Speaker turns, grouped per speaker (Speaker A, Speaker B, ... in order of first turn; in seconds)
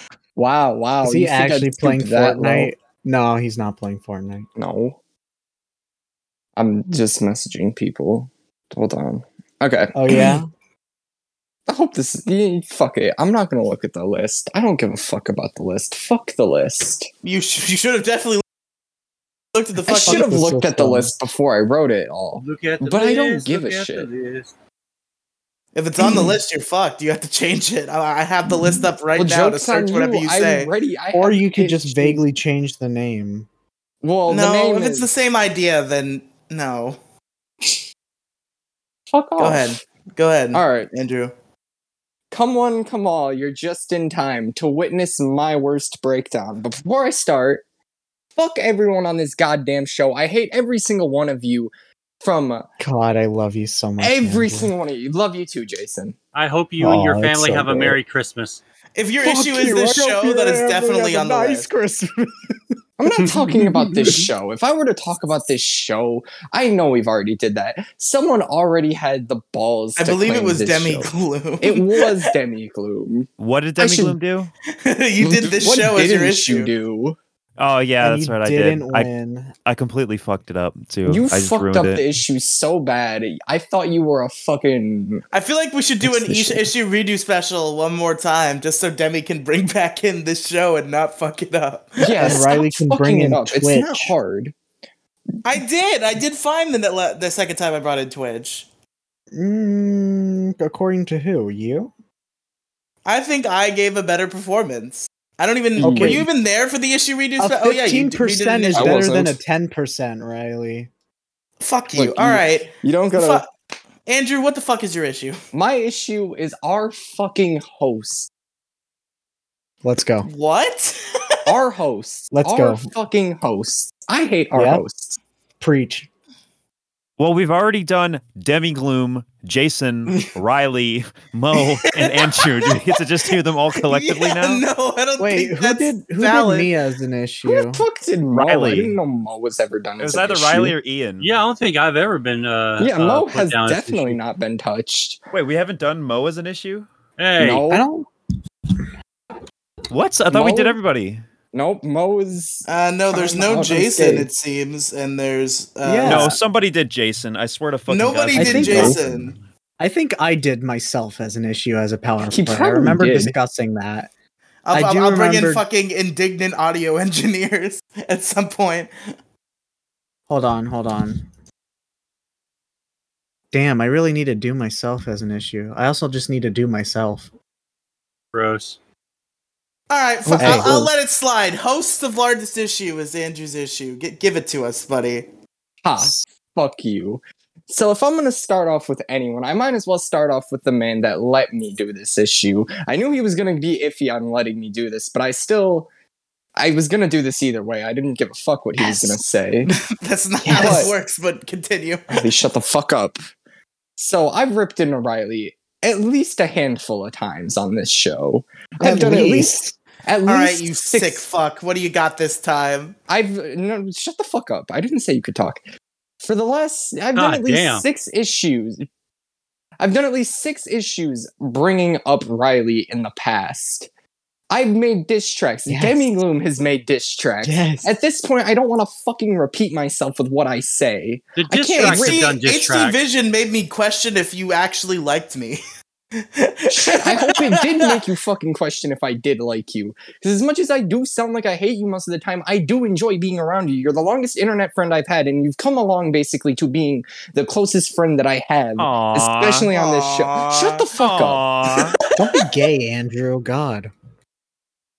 Speaker A: 0.3-2.7, 4.5-5.0, 6.5-10.4, 11.7-17.1, 19.9-24.1, 29.1-32.2, 34.0-35.1, 39.1-39.8, 40.5-40.9, 42.3-47.6, 48.4-51.7, 52.2-52.7, 54.0-56.1, 63.0-71.1, 71.6-74.2, 75.2-77.2, 81.0-85.2, 92.0-94.5, 105.8-106.3, 108.7-109.4, 111.9-113.4, 115.5-118.3, 121.5-125.2, 137.5-140.8, 142.8-145.2, 147.4-147.8, 150.3-150.8, 151.5-154.3, 158.7-158.9, 162.2-163.3, 180.3-180.9, 185.8-195.9, 196.6-199.7, 200.5-200.9, 202.1-203.2, 204.0-211.2, 213.1-215.6, 216.2-218.8, 219.8-223.9, 224.5-232.2, 236.7-251.4
Speaker B: 1.0-4.5, 9.9-10.4, 19.9-21.2, 26.0-26.3, 31.1-33.5, 52.8-54.7, 56.8-58.0, 59.2-62.6, 63.1-64.3, 78.0-79.5, 86.0-86.7, 92.2-94.1, 99.3-101.9, 105.8-106.3, 107.4-110.9, 119.8-120.3, 122.3-122.9, 124.5-124.8, 125.6-126.1, 135.2-137.8, 147.7-148.1, 155.8-156.4, 158.3-159.0, 159.8-164.1, 164.7-165.6, 170.3-171.2, 173.5-177.3, 180.3-180.9, 200.4-200.9, 208.8-209.7, 225.7-226.0, 227.4-227.9, 252.2-253.9
Speaker C: 17.2-18.4, 19.5-20.3, 25.7-30.7, 34.3-37.0, 39.4-41.3, 59.0-61.7, 70.0-72.2, 74.8-76.7, 85.3-92.5, 95.4-98.7, 103.0-109.1, 111.6-113.5, 114.1-115.4, 120.2-121.0, 131.9-136.7, 152.7-156.3, 157.9-159.3, 164.7-168.9, 179.9-185.3, 199.7-202.3, 210.2-212.9, 231.8-235.6, 236.2-237.9, 249.7-250.9, 251.6-252.5
Speaker D: 22.3-24.5, 56.3-58.6, 141.2-144.2, 147.2-147.6, 178.3-178.8, 217.1-217.8, 231.3-233.0
Speaker E: 73.4-74.5, 77.6-79.1, 79.6-82.0, 127.2-134.6, 138.3-138.9, 140.0-141.3, 145.3-146.9, 149.9-151.2, 156.0-159.3, 248.8-249.7, 250.9-252.0